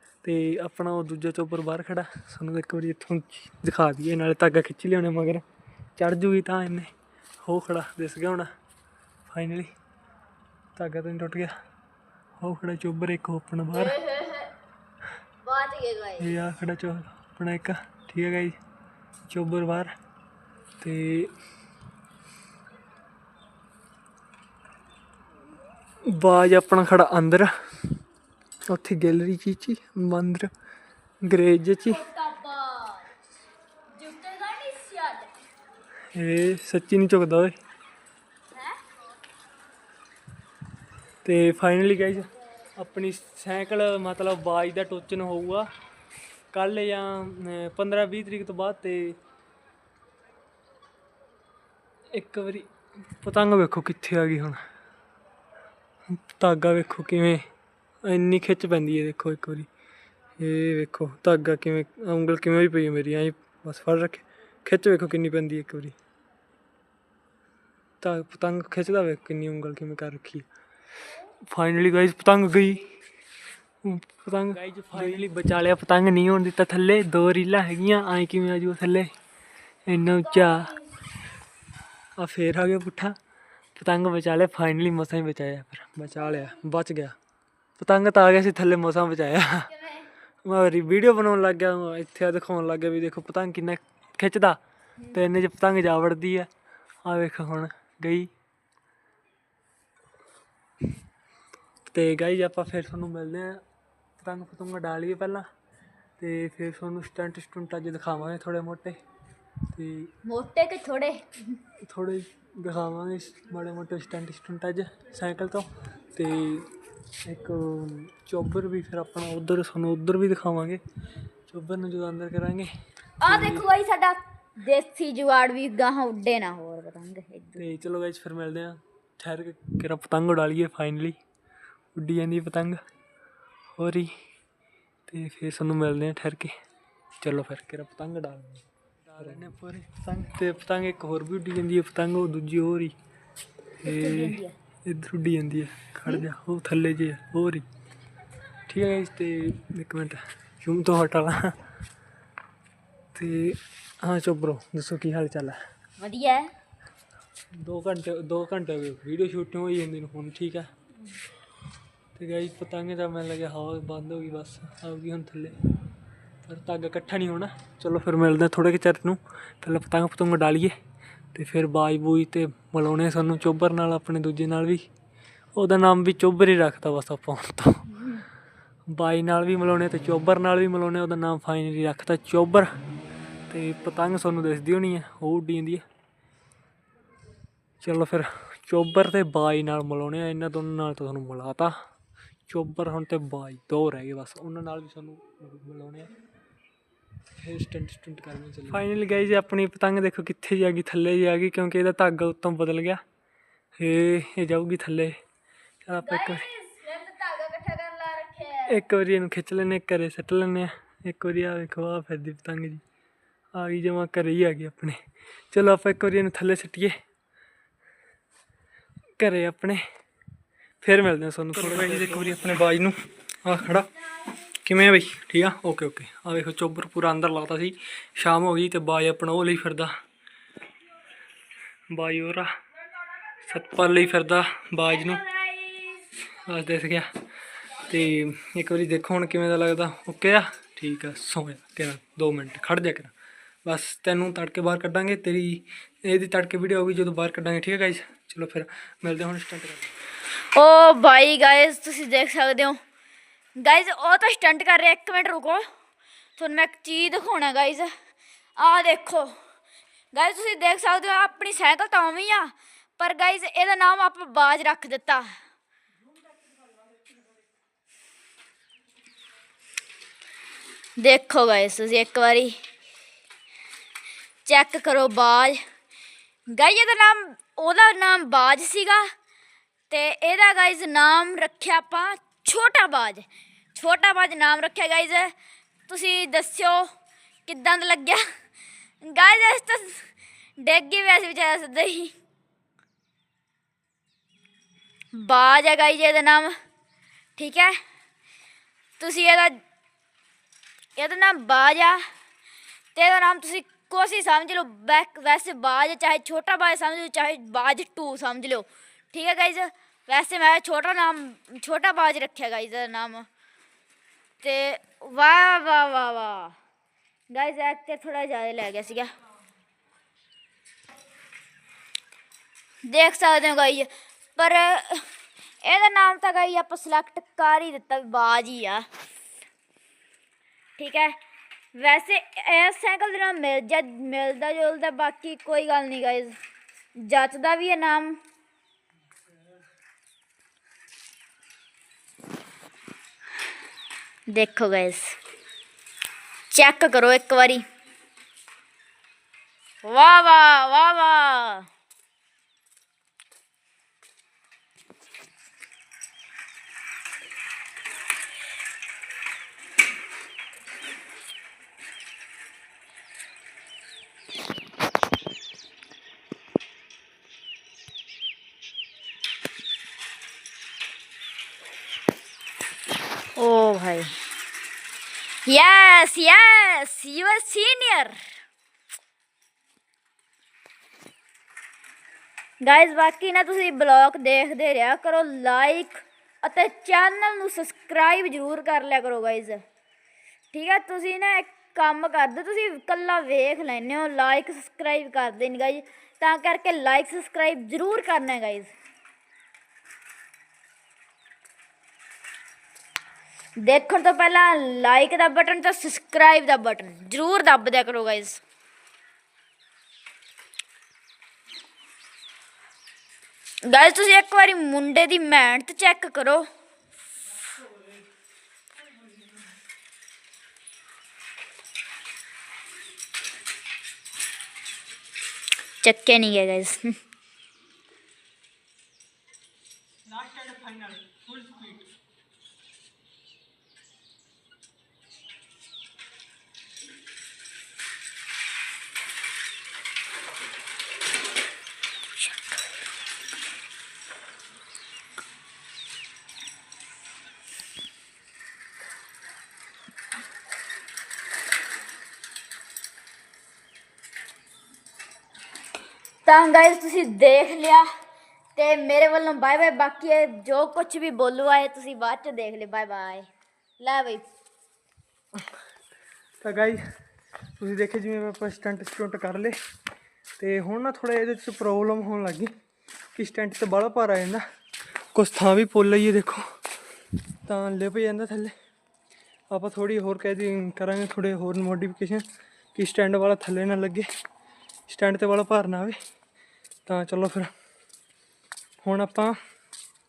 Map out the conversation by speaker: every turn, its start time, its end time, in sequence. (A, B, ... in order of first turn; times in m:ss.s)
0:00.2-0:05.4 A
0:06.0-0:06.9 A
0:07.4-0:08.5 A
0:09.3-0:09.7 A
0:10.8-0:11.5 A
0:12.4-0:14.0 A
0:13.7-0:14.6 B
0:15.4-0:16.4 B
0:16.2-0:18.6 A
0:19.3-0:19.9 A
0:20.8-0:21.3 A
0:26.0-0:27.5 A
0:28.7-0:30.5 A
0:31.2-0:32.0 A
0:31.8-0:33.1 B
0:34.0-0:35.3 B
0:36.1-0:37.5 A
0:41.2-0:45.7 A
0:46.5-0:49.2 A
0:52.1-0:54.6 A
0:56.1-0:57.4 A
0:58.0-0:59.7 A
1:00.4-1:06.0 A
1:08.0-1:10.4 A
1:11.5-1:13.0 A
1:13.8-1:19.1 A
1:19.9-1:20.8 A
1:20.2-1:20.9 B
1:22.2-1:23.1 A
1:23.8-1:27.1 A
1:26.2-1:26.5 B
1:27.8-1:29.7 A
1:29.7-1:30.1 B
1:30.4-1:34.6 A
1:35.1-1:36.5 A
1:37.0-1:38.3 A
1:41.8-1:43.6 A
1:44.2-1:45.4 A
1:46.2-1:49.0 A
1:49.7-1:50.1 A
1:50.2-1:51.6 B
1:51.8-1:56.7 A
1:57.2-2:00.8 A
2:01.5-2:02.7 A
2:03.2-2:07.6 B
2:03.2-2:03.6 A
2:07.6-2:11.2 A
2:11.9-2:12.8 A
2:13.8-2:14.1 A
2:15.1-2:16.5 A
2:17.2-2:22.9 A
2:23.8-2:24.5 B
2:23.8-2:27.6 A
2:28.7-2:31.6 A
2:33.1-2:35.6 A
2:36.0-2:36.5 B
2:37.5-2:40.7 A
2:42.2-2:45.5 A
2:46.4-2:50.7 A
2:51.3-2:54.9 A
2:55.6-2:58.1 A
2:58.9-3:02.7 A
3:03.5-3:05.8 A
3:07.8-3:11.7 A
3:12.5-3:16.1 A
3:17.4-3:23.0 A
3:23.8-3:25.2 A
3:25.8-3:26.5 A
3:26.0-3:28.8 B
3:28.7-3:32.8 A
3:33.5-3:35.0 A
3:35.5-3:36.9 A
3:39.2-3:39.8 A
3:40.8-3:43.9 A
3:44.5-3:49.9 A
3:51.9-3:52.5 A
3:53.3-3:55.3 A
3:55.6-3:55.9 B
3:56.2-3:57.1 A
3:57.7-4:03.1 A
4:03.6-4:09.9 A
4:10.5-4:12.8 B
4:13.6-4:15.6 B
4:16.4-4:17.9 B
4:18.6-4:19.3 B
4:20.1-4:25.4 B
4:31.0-4:32.6 B
4:34.4-4:35.6 B
4:36.5-4:39.1 B
4:39.9-4:45.3 B
4:45.9-4:46.9 B
4:47.4-4:48.2 B
4:49.0-4:52.1 B
4:55.1-4:56.5 B
4:57.4-4:57.8 B
4:59.0-4:59.6 B
5:01.0-5:02.0 B
5:02.9-5:13.3 B
5:14.4-5:16.6 B
5:17.3-5:19.1 B
5:22.8-5:25.1 B
5:25.6-5:28.8 B
5:30.8-5:31.2 B
5:31.7-5:36.4 B
5:37.0-5:38.2 B
5:44.3-5:45.2 B
5:46.5-5:47.6 B
5:49.8-5:51.7 B
6:13.4-6:14.2 B
6:15.4-6:18.3 B
6:22.6-6:29.6 B
6:30.5-6:38.7 B
6:43.6-6:48.4 B
6:53.6-6:56.5 B
7:05.8-7:06.9 B
7:10.7-7:10.9 A
7:36.2-7:37.8 B
7:38.6-7:43.3 B
7:43.8-7:44.2 B
7:46.4-7:46.8 A
7:47.6-7:49.5 A
7:50.4-7:52.5 A
7:53.2-7:54.4 A
7:55.1-7:56.4 A
7:57.4-7:58.5 A
7:59.5-8:04.1 A
8:04.9-8:06.0 A
8:06.8-8:07.5 A
8:08.8-8:09.4 A